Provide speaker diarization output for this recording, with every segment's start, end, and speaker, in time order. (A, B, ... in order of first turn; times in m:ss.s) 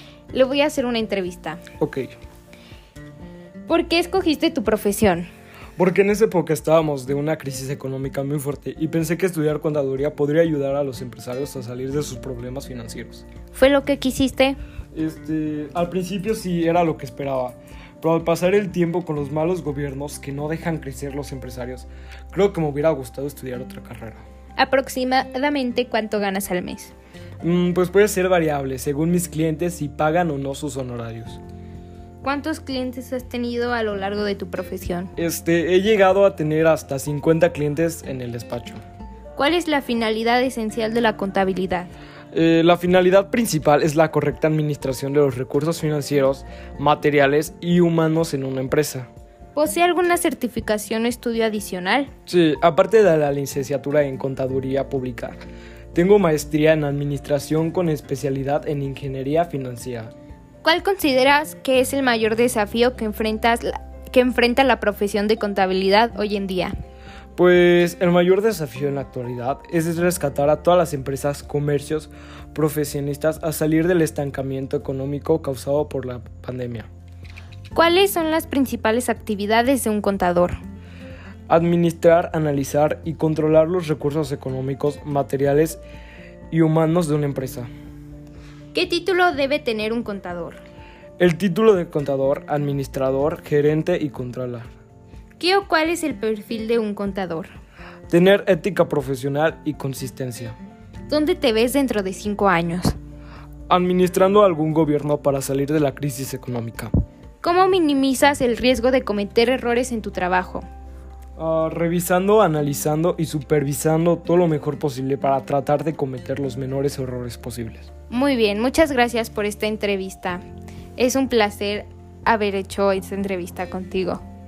0:00.3-0:01.6 A
0:01.8-0:02.1 B
0:03.7-0:05.3 A
0:05.8-0:13.2 B
0:13.5-0:14.6 A
0:14.9-0:24.2 B
0:24.6-0:26.9 A
0:27.4-0:31.4 B
0:32.2-0:35.1 A
0:35.2-0:38.8 B
0:39.4-0:41.9 A
0:42.3-0:49.1 B
0:49.6-0:52.1 A
0:52.3-0:55.4 B
0:55.9-1:00.1 B
1:00.6-1:06.7 A
1:07.4-1:16.9 B
1:17.7-1:20.6 A
1:21.5-1:25.8 B
1:26.5-1:27.7 B
1:28.7-1:30.6 A
1:31.2-1:34.7 B
1:35.4-1:37.5 A
1:38.1-1:40.6 B
1:41.1-1:42.9 A
1:43.7-1:46.9 B
1:47.4-1:50.6 A
1:51.4-1:57.9 B
1:58.1-2:00.4 A
2:01.0-2:04.2 A